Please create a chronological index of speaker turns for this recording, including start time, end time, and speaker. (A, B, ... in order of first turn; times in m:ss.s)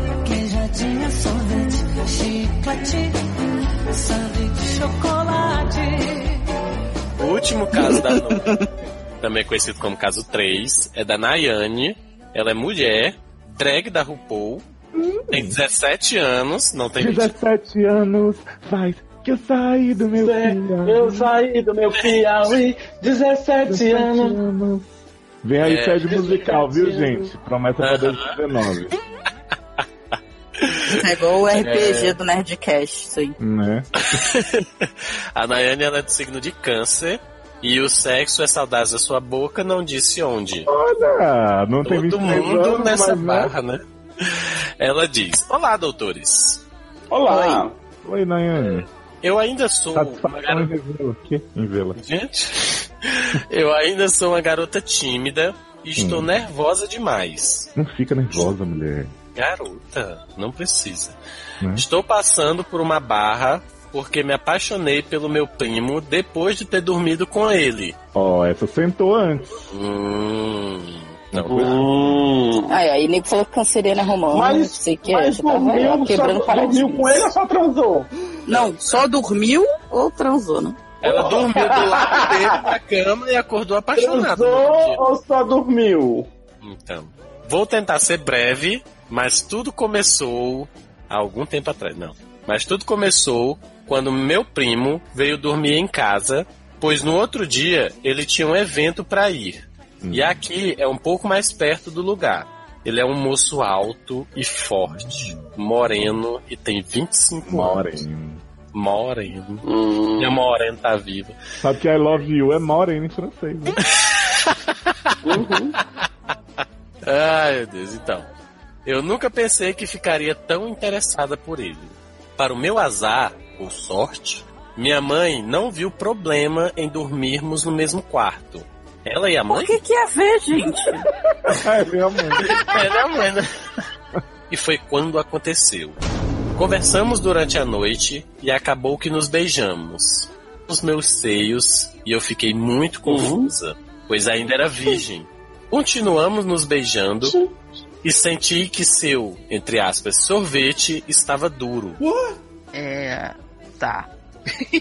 0:00.2-0:03.2 A
0:03.9-0:06.4 A
0:07.2-0:08.6 B
0:07.9-0:08.6 C
0:09.2-0:14.6 B
0:15.0-0:15.6 D
0:15.3-0:17.3 B
0:17.0-0:21.3 D
0:20.2-0:24.4 E
0:23.7-0:24.9 D
0:25.4-0:29.0 D
0:25.6-0:26.1 B
0:26.1-0:27.3 E
0:27.8-0:28.4 B
0:30.6-0:31.0 B
0:30.9-0:33.4 C
0:31.5-0:32.2 B
0:33.4-0:34.0 D
0:34.0-0:40.7 B
0:40.7-0:43.5 D
0:41.8-0:46.6 B
0:47.1-0:47.8 E
0:47.3-0:47.6 C
0:48.0-0:48.9 D
0:48.6-0:50.7 B
0:49.9-0:52.0 D
0:52.0-0:57.7 B
0:56.0-0:56.3 D
0:57.8-0:59.1 D
0:59.4-1:01.2 B
1:01.6-1:01.9 D
1:01.7-1:08.0 B
1:08.2-1:09.7 D
1:09.7-1:11.8 B
1:11.3-1:12.3 D
1:11.5-1:12.8 E
1:12.7-1:17.3 C
1:14.3-1:18.1 E
1:18.5-1:20.8 C
1:18.5-1:18.8 B
1:21.0-1:25.0 B
1:21.0-1:22.6 E
1:24.0-1:26.3 E
1:26.6-1:48.0 B
1:40.0-1:40.4 D
1:44.9-1:45.5 D
1:47.4-1:48.4 D
1:48.7-1:51.4 B
1:49.7-1:50.3 E
1:51.6-1:53.8 D
1:54.0-1:54.6 B
1:55.2-1:55.8 E
1:57.0-1:58.3 B
1:58.8-2:09.8 B
2:09.5-2:11.1 C
2:11.4-2:12.5 D
2:12.4-2:13.5 B
2:14.5-2:16.0 B
2:16.6-2:27.4 B
2:23.0-2:23.5 E
2:27.2-2:27.5 E
2:28.0-2:32.0 B
2:32.0-2:32.4 E
2:32.8-2:34.1 C